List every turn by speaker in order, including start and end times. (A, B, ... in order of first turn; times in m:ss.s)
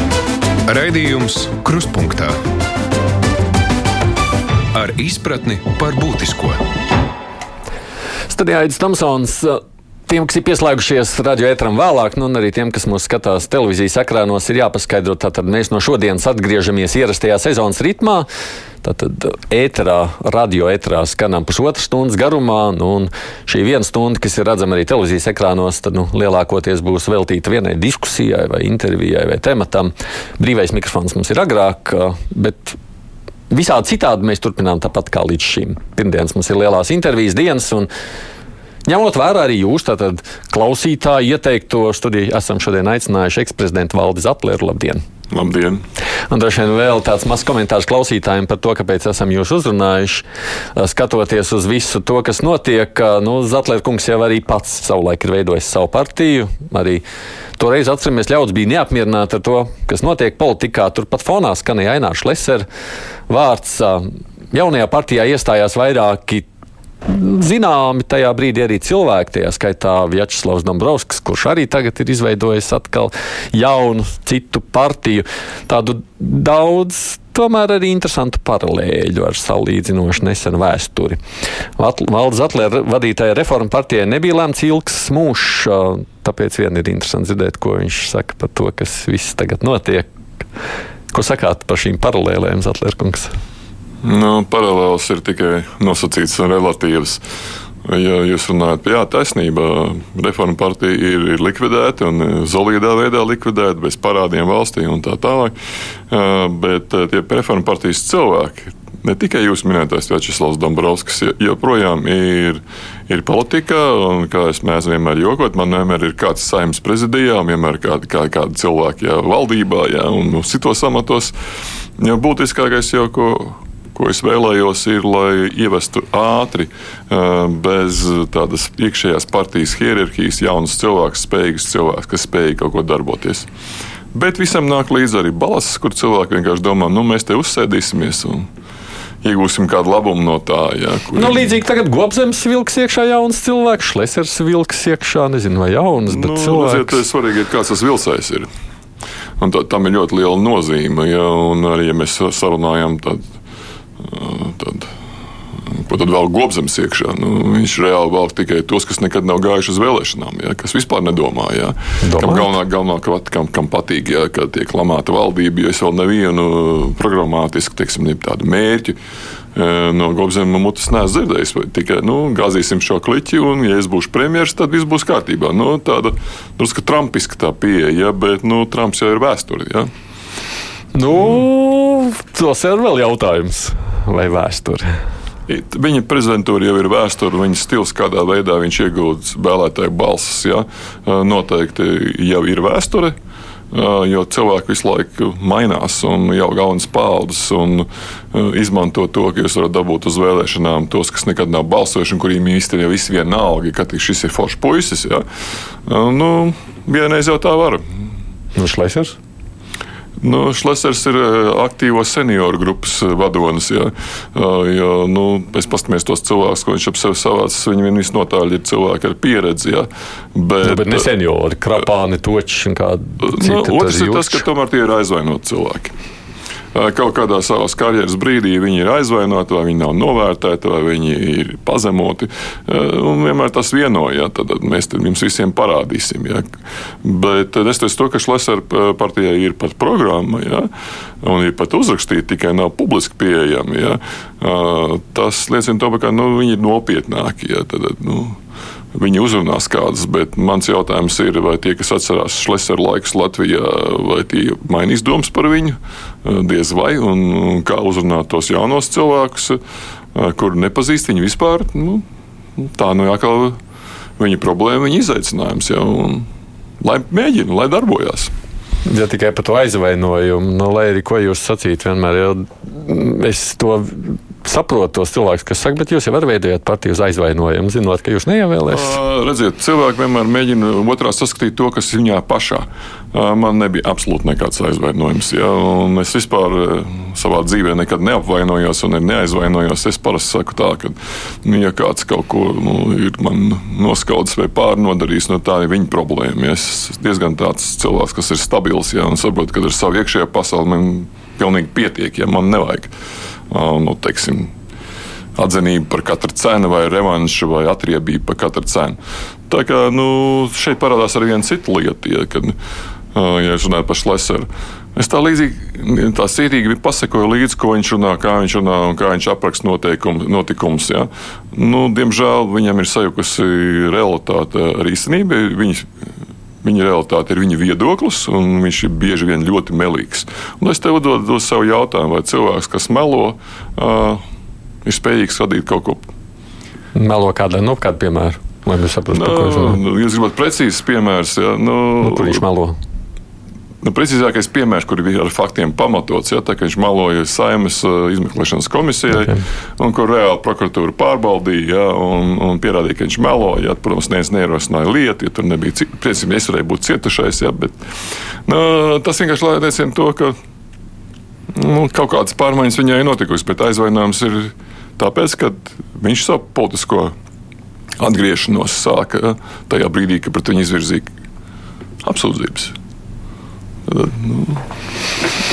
0:00.6-0:02.4 A
0:04.7-0:06.6 A
0:08.3-0:18.3 B
0:18.8-0:32.8 B
0:33.5-0:37.9 B
0:38.9-0:45.0 B
0:45.3-0:45.8 C
0:46.3-0:50.2 B
0:50.8-0:57.0 B
0:57.6-1:02.6 B
1:03.3-1:06.4 B
1:07.0-1:21.2 B
1:21.8-1:30.1 B
1:31.1-1:33.3 B
1:34.0-1:37.2 C
1:37.8-1:45.5 C
1:46.1-2:01.3 C
2:02.0-2:13.5 C
2:14.1-2:18.5 C
2:19.2-2:21.5 C
2:21.1-2:27.0 B
2:26.1-2:28.5 C
2:29.4-2:33.3 C
2:34.0-2:34.9 C
2:35.7-2:49.0 C
2:42.0-2:42.5 B
2:49.5-2:59.9 C
3:00.9-3:04.9 B
3:05.5-3:13.2 C
3:13.7-3:25.2 C
3:25.8-3:27.8 C
3:28.5-3:29.2 B
3:30.2-3:41.1 C
3:40.6-3:44.4 B
3:43.2-3:45.9 C
3:46.7-3:56.4 C
3:57.0-4:00.7 C
4:01.2-4:08.4 C
4:08.9-4:19.6 C
4:20.1-4:22.0 C
4:22.6-4:23.6 C
4:24.2-4:26.3 C
4:26.8-4:28.3 C
4:28.8-4:39.0 B
4:38.7-5:02.9 C
5:03.5-5:04.5 C
5:05.4-5:09.0 C
5:09.5-5:12.6 C
5:13.1-5:25.9 C
5:26.6-5:34.2 C
5:34.8-5:36.1 C
5:36.9-5:39.8 B
5:39.1-5:42.4 C
5:42.0-5:42.8 B
5:43.8-5:57.8 C
5:58.4-6:00.4 C
6:01.5-6:07.1 C
6:08.0-6:11.1 C
6:12.0-6:12.7 C
6:13.9-6:14.6 C